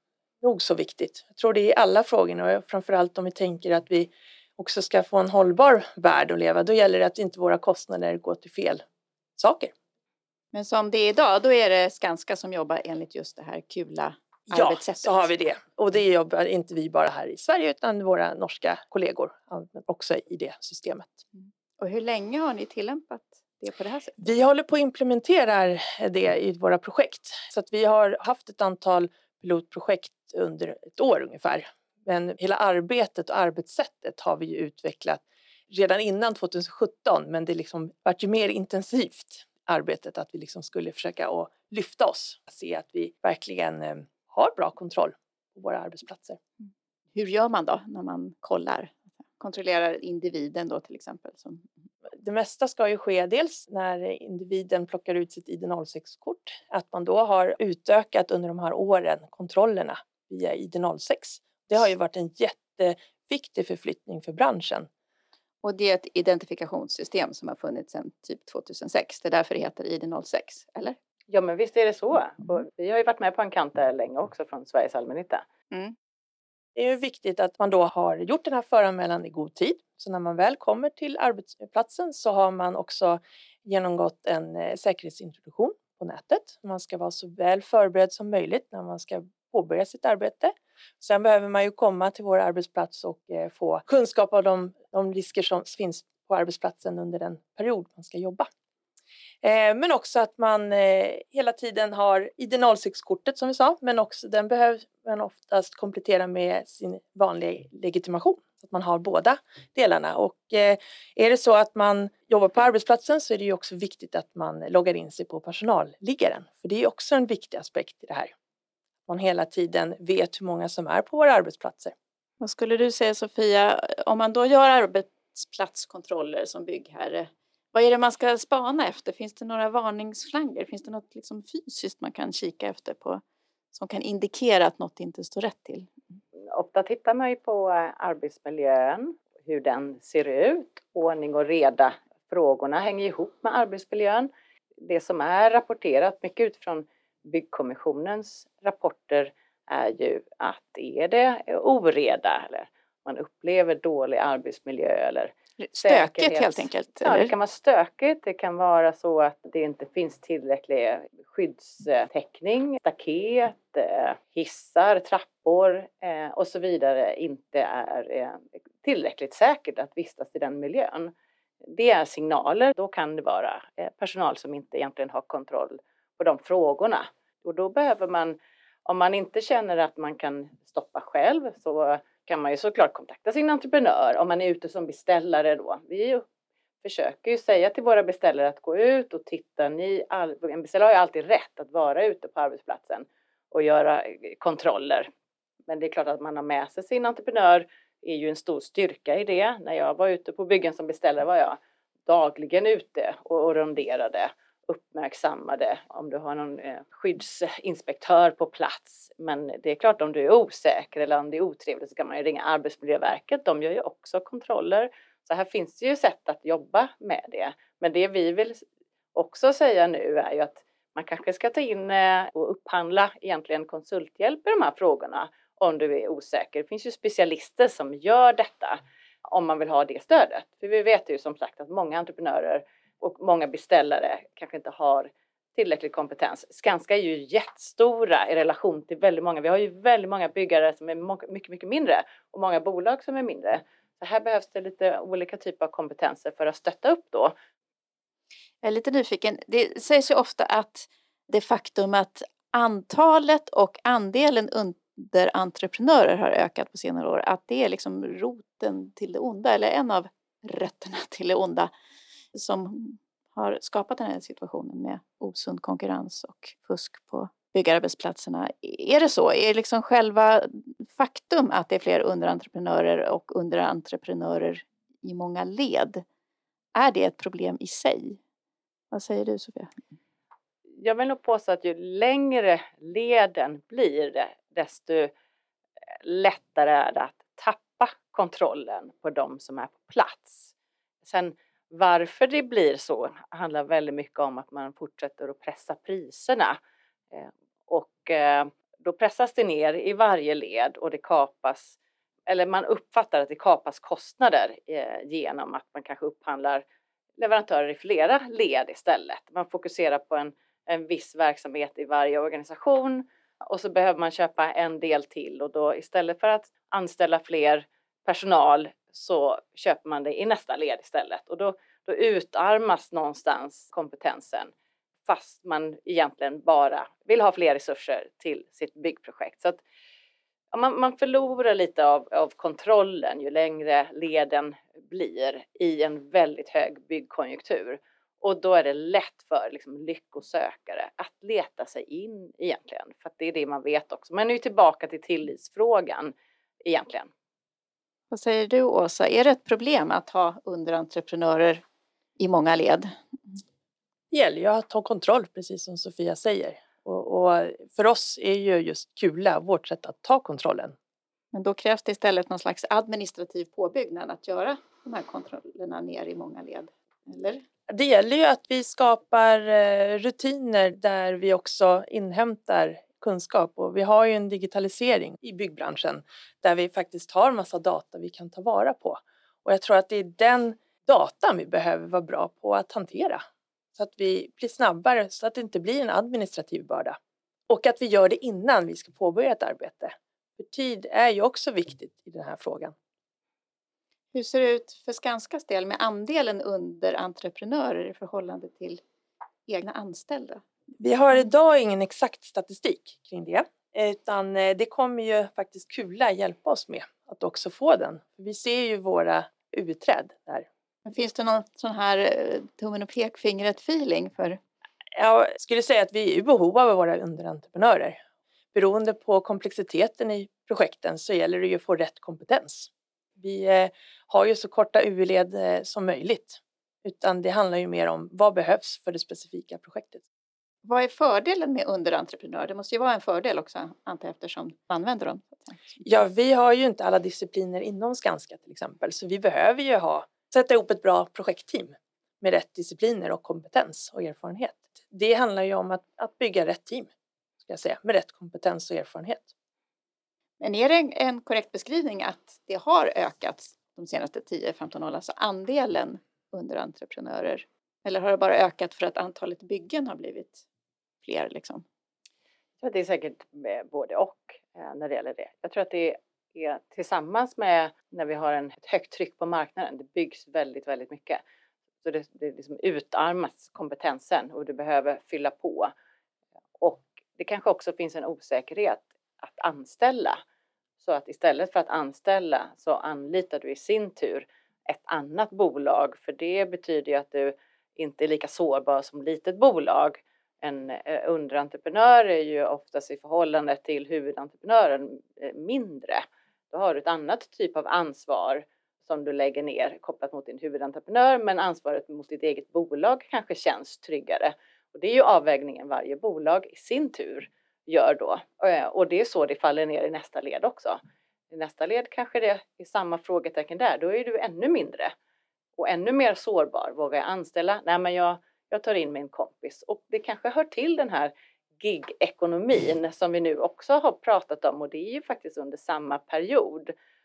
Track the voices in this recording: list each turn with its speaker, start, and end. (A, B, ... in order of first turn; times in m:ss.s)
0:00.4-0:08.8 A
0:09.4-0:09.7 A
0:10.5-0:15.3 B
0:14.5-0:21.2 A
0:21.8-0:24.3 B
0:24.2-0:46.4 A
0:47.1-0:51.6 B
0:52.2-1:04.9 A
1:05.6-1:11.0 B
1:11.3-1:15.4 C
1:16.8-1:38.5 A
1:39.4-1:58.3 A
1:59.1-2:01.9 A
2:02.4-2:13.2 B
2:13.7-2:15.9 B
2:16.5-2:51.1 C
2:35.6-2:37.3 B
2:51.6-3:06.2 C
3:06.8-3:15.1 C
3:15.7-4:07.3 C
4:08.6-4:21.7 B
4:22.3-4:36.0 B
4:36.8-4:38.2 B
4:38.9-4:39.7 B
4:40.8-4:45.1 C
4:46.0-4:50.5 C
4:51.0-4:56.6 C
4:57.1-5:01.8 C
5:02.3-5:06.6 C
5:07.2-5:24.5 C
5:25.1-5:29.6 C
5:30.5-5:46.1 C
5:46.6-5:47.1 C
5:48.1-5:51.6 B
5:52.2-5:52.9 B
5:54.1-6:00.8 A
6:01.3-6:07.4 B
6:07.7-6:23.2 A
6:23.8-6:27.0 A
6:27.5-6:32.7 A
6:34.1-6:38.8 B
6:39.5-6:40.4 B
6:40.8-6:50.4 A
6:50.8-6:54.4 B
6:54.9-6:58.0 A
6:58.5-7:10.0 A
7:10.6-7:15.8 B
7:15.8-7:26.9 A
7:27.4-7:29.3 A
7:30.4-7:40.4 B
7:41.0-7:41.6 B
7:42.6-7:51.2 C
7:51.8-7:55.7 C
7:56.6-8:00.2 C
8:00.8-8:30.8 C
8:31.3-8:34.9 C
8:35.6-8:46.7 C